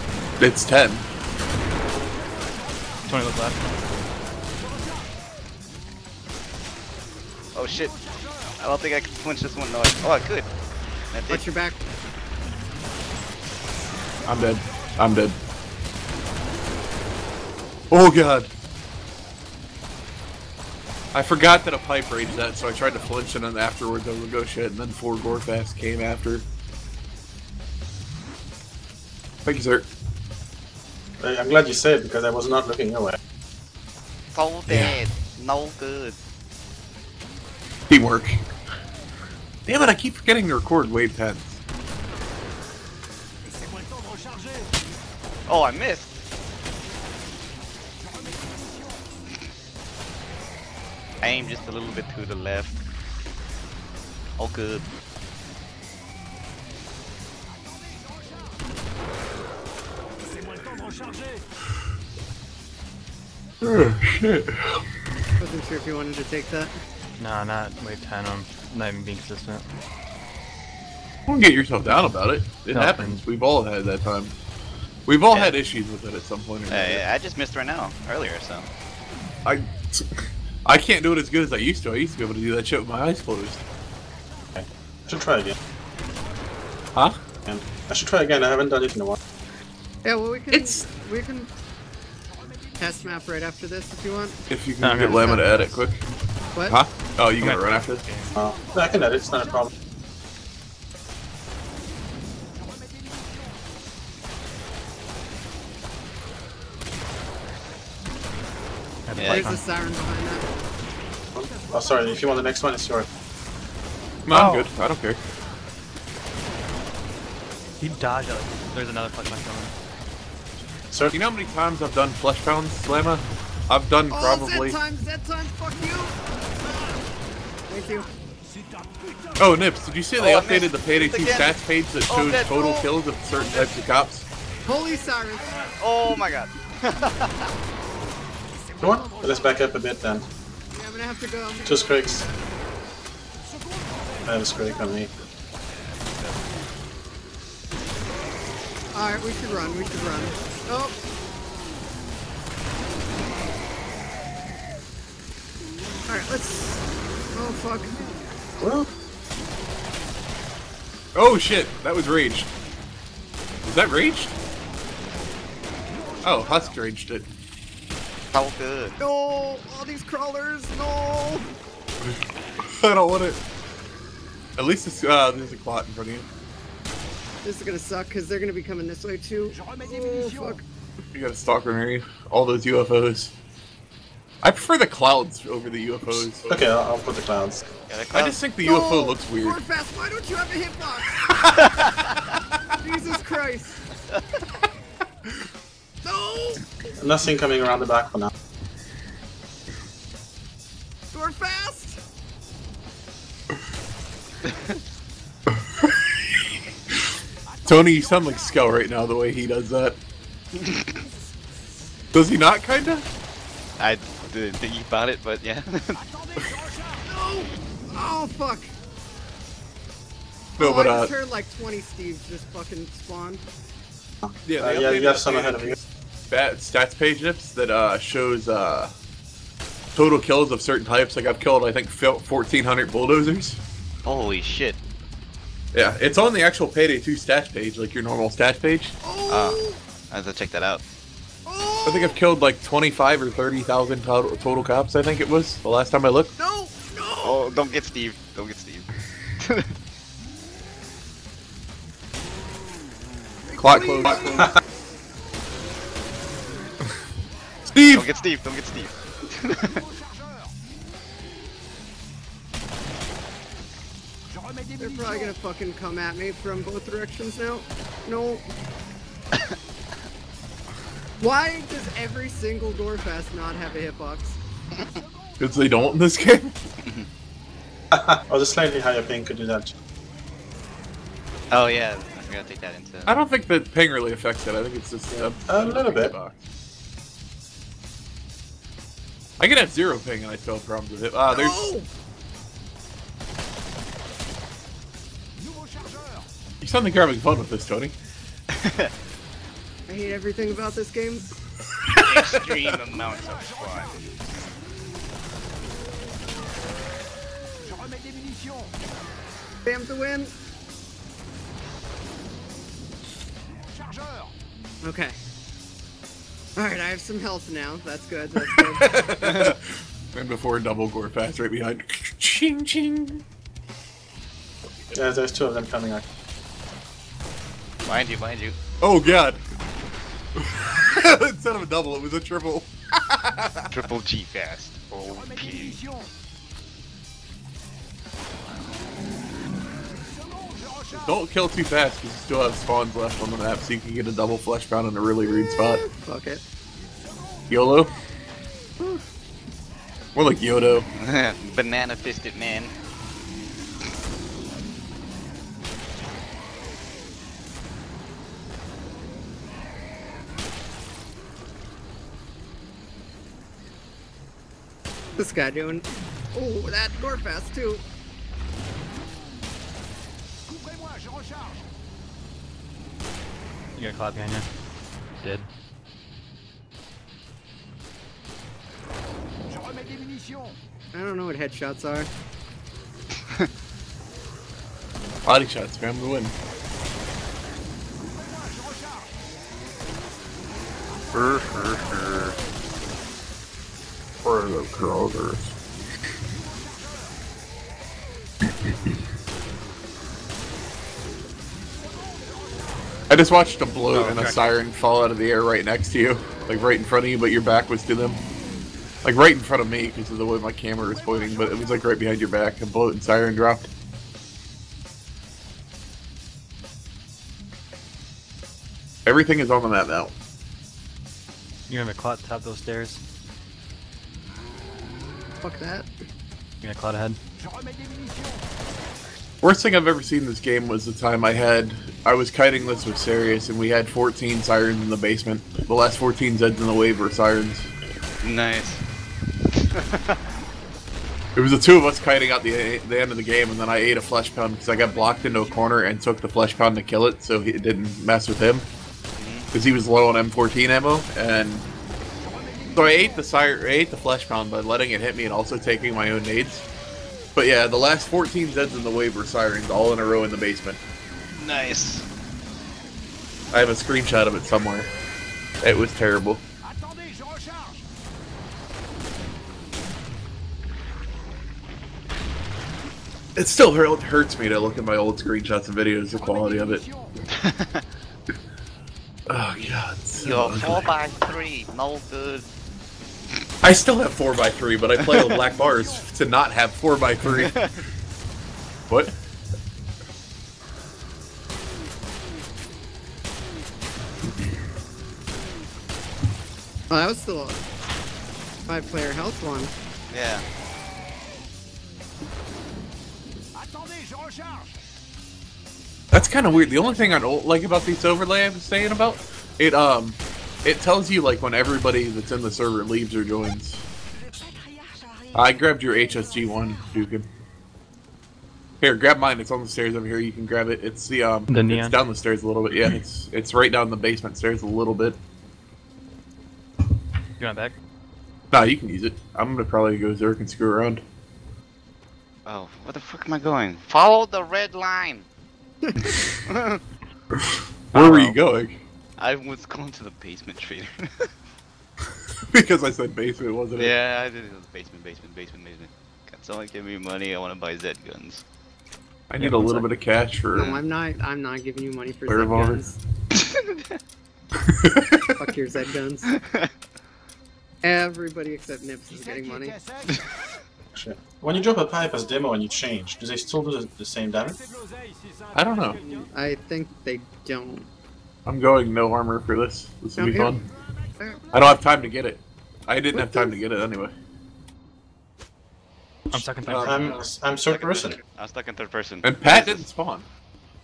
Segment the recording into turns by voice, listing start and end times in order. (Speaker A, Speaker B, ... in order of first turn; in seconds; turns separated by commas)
Speaker A: 0.4-1.1, Speaker B: 3.1-3.9, Speaker C: 7.5-8.0, Speaker C: 8.6-10.5, Speaker C: 11.1-11.5, Speaker D: 11.3-11.8, Speaker A: 14.2-15.4, Speaker A: 17.9-18.5, Speaker A: 21.1-26.4, Speaker A: 29.4-29.9, Speaker E: 31.2-33.2, Speaker C: 34.3-36.2, Speaker A: 34.7-35.1, Speaker A: 37.9-38.4, Speaker A: 39.7-41.6, Speaker C: 45.5-46.1, Speaker C: 51.2-52.8, Speaker C: 54.4-54.9, Speaker A: 63.6-64.8, Speaker D: 65.4-66.7, Speaker B: 67.2-69.7, Speaker A: 71.3-74.3, Speaker B: 72.7-73.2, Speaker A: 75.1-77.0, Speaker C: 75.3-75.6, Speaker C: 76.7-78.7, Speaker A: 79.5-83.6, Speaker E: 84.6-85.6, Speaker E: 87.5-89.2, Speaker D: 90.0-91.5, Speaker A: 90.5-90.8, Speaker D: 92.8-94.4, Speaker A: 94.5-96.0, Speaker B: 94.8-95.7, Speaker D: 95.2-95.5, Speaker A: 96.7-98.0, Speaker B: 97.4-98.3, Speaker E: 98.3-99.7, Speaker B: 109.1-109.6, Speaker C: 109.2-109.5, Speaker D: 109.3-110.5, Speaker E: 111.3-113.1, Speaker A: 114.3-115.2, Speaker B: 114.3-114.7, Speaker B: 117.8-119.7, Speaker E: 120.9-121.2, Speaker A: 121.1-124.8, Speaker D: 124.1-126.2, Speaker D: 127.7-128.1, Speaker A: 129.4-134.3, Speaker C: 130.2-132.9, Speaker D: 134.7-135.8, Speaker C: 135.8-137.5, Speaker E: 138.8-140.3, Speaker D: 140.7-142.3, Speaker E: 141.6-142.3, Speaker E: 144.2-145.1, Speaker D: 148.9-151.0, Speaker D: 156.1-158.0, Speaker E: 158.6-158.9, Speaker A: 161.2-162.5, Speaker A: 163.6-164.3, Speaker A: 166.2-167.3, Speaker C: 168.3-169.0, Speaker D: 169.0-171.5, Speaker A: 172.7-173.4, Speaker A: 174.6-176.3, Speaker D: 177.4-180.6, Speaker A: 181.1-183.3, Speaker A: 184.4-186.5, Speaker E: 186.5-187.7, Speaker C: 187.9-188.4, Speaker A: 188.1-189.6, Speaker D: 188.6-191.3, Speaker C: 191.6-192.2, Speaker D: 192.8-193.8, Speaker D: 196.0-196.9, Speaker E: 197.0-198.3, Speaker D: 201.1-202.0, Speaker C: 204.5-204.8, Speaker A: 207.7-210.0, Speaker C: 210.6-211.0, Speaker A: 212.1-213.1, Speaker C: 213.8-216.0, Speaker D: 217.1-218.7, Speaker A: 220.6-221.1, Speaker D: 220.6-223.4, Speaker E: 224.2-225.8, Speaker A: 224.5-225.8, Speaker A: 226.3-228.9, Speaker A: 229.9-233.6, Speaker C: 234.1-234.8, Speaker A: 235.7-239.0, Speaker D: 239.0-239.8, Speaker C: 239.3-240.8, Speaker D: 241.5-242.2, Speaker A: 241.9-246.3, Speaker D: 246.4-247.4, Speaker C: 247.2-248.9, Speaker C: 249.4-249.7, Speaker D: 253.5-254.5, Speaker A: 253.6-254.5, Speaker A: 257.7-258.1, Speaker C: 257.9-259.8, Speaker D: 264.8-268.5, Speaker D: 271.2-274.4, Speaker A: 275.4-276.5, Speaker E: 277.9-279.7, Speaker C: 281.5-283.1, Speaker A: 283.1-286.4, Speaker E: 285.1-286.1, Speaker A: 289.4-291.6, Speaker D: 291.3-291.9, Speaker A: 296.6-297.9, Speaker C: 298.5-298.9, Speaker D: 299.9-301.3, Speaker A: 301.9-302.8, Speaker C: 302.0-304.0, Speaker D: 309.6-310.3, Speaker D: 314.8-315.2, Speaker D: 316.6-318.9, Speaker A: 318.5-323.2, Speaker C: 319.2-319.5, Speaker E: 324.9-326.1, Speaker C: 327.8-328.6, Speaker A: 328.8-329.4, Speaker A: 330.4-333.7, Speaker C: 333.7-335.9, Speaker A: 340.9-345.8, Speaker D: 345.5-346.4, Speaker A: 347.5-347.9, Speaker A: 350.1-350.9, Speaker C: 351.0-352.7, Speaker D: 365.2-367.8, Speaker B: 373.8-374.5, Speaker B: 375.2-375.5, Speaker D: 380.9-382.1, Speaker A: 385.3-386.4, Speaker A: 391.1-392.4, Speaker A: 394.2-395.5, Speaker A: 403.1-408.2, Speaker B: 403.9-404.6, Speaker A: 409.0-413.7, Speaker A: 419.1-420.1, Speaker B: 421.7-423.0, Speaker D: 425.4-425.9, Speaker B: 426.6-427.2, Speaker A: 429.4-437.7, Speaker C: 438.2-438.8, Speaker C: 439.6-440.1, Speaker A: 441.4-448.7, Speaker C: 449.2-449.5, Speaker A: 449.5-451.7, Speaker A: 452.7-456.7, Speaker A: 457.4-460.8, Speaker C: 461.3-462.1, Speaker A: 463.5-464.9, Speaker A: 465.6-466.4, Speaker A: 473.4-476.9, Speaker C: 477.3-477.8, Speaker A: 479.3-480.9, Speaker C: 480.2-482.5, Speaker A: 483.6-487.6, Speaker C: 485.0-485.3, Speaker C: 487.4-487.8, Speaker A: 488.9-489.1, Speaker D: 496.9-497.6, Speaker D: 498.7-499.7, Speaker C: 500.1-500.4, Speaker A: 506.1-513.9, Speaker A: 515.3-517.3, Speaker A: 518.8-525.2, Speaker B: 521.5-522.0, Speaker B: 527.4-527.8, Speaker A: 528.5-531.0, Speaker C: 532.5-535.3, Speaker D: 535.8-536.2, Speaker C: 536.5-536.8, Speaker A: 537.9-538.8, Speaker B: 537.9-538.4, Speaker C: 539.2-541.3, Speaker A: 542.5-544.0, Speaker C: 543.8-548.4, Speaker A: 549.3-550.8, Speaker B: 549.4-549.9, Speaker D: 550.5-553.0, Speaker A: 552.3-552.8, Speaker C: 553.4-553.8, Speaker A: 554.7-555.3, Speaker D: 555.4-556.4, Speaker D: 557.8-559.8, Speaker E: 560.9-564.8, Speaker A: 565.5-566.2, Speaker D: 566.3-567.9, Speaker A: 568.5-570.7, Speaker D: 570.2-570.6, Speaker D: 571.2-571.5, Speaker A: 571.5-574.1, Speaker D: 573.2-573.6, Speaker B: 576.3-577.2, Speaker A: 576.6-577.2, Speaker E: 576.7-578.2, Speaker C: 577.6-579.9, Speaker A: 579.2-580.3